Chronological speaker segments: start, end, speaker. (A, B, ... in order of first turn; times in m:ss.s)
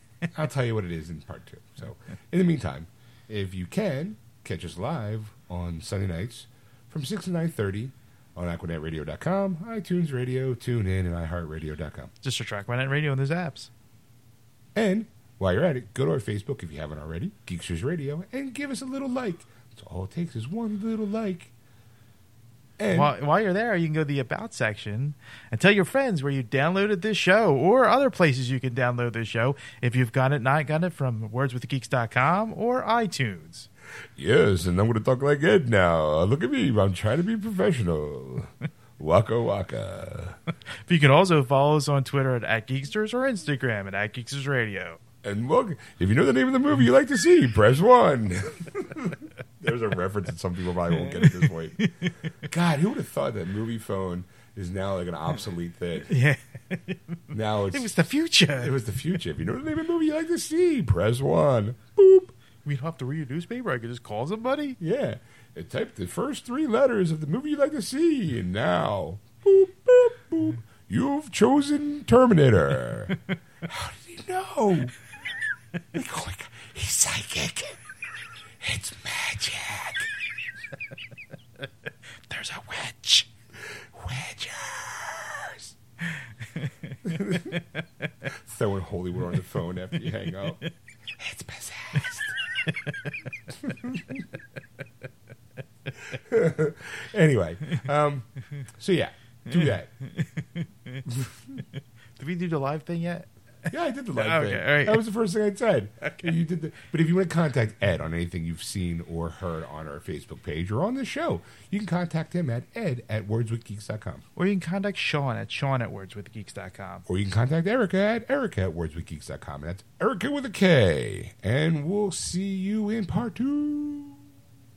0:00.3-0:12.1 A
0:12.2-0:13.7 B
0:14.8-0:21.5 A
0:22.8-0:23.1 A
0:22.9-0:33.7 B
0:34.2-0:40.4 A
0:40.9-0:45.0 B
0:45.2-0:51.8 A
0:51.2-0:52.1 B
0:52.4-0:56.1 A
0:56.1-0:57.2 B
0:57.3-0:57.9 A
0:57.7-0:58.8 B
0:58.5-1:02.3 A
1:02.6-1:04.8 B
1:04.8-1:14.9 A
1:15.9-1:17.8 A
1:18.6-1:20.1 A
1:22.3-1:23.3 B
1:23.6-1:25.7 A
1:26.6-1:27.0 B
1:27.0-1:27.6 A
1:28.3-1:30.6 A
1:31.2-1:32.4 A
1:33.6-1:34.2 A
1:36.1-1:39.9 A
1:39.5-1:41.0 B
1:42.2-1:45.0 B
1:43.7-1:54.2 A
1:54.4-1:57.0 B
1:57.1-2:04.2 A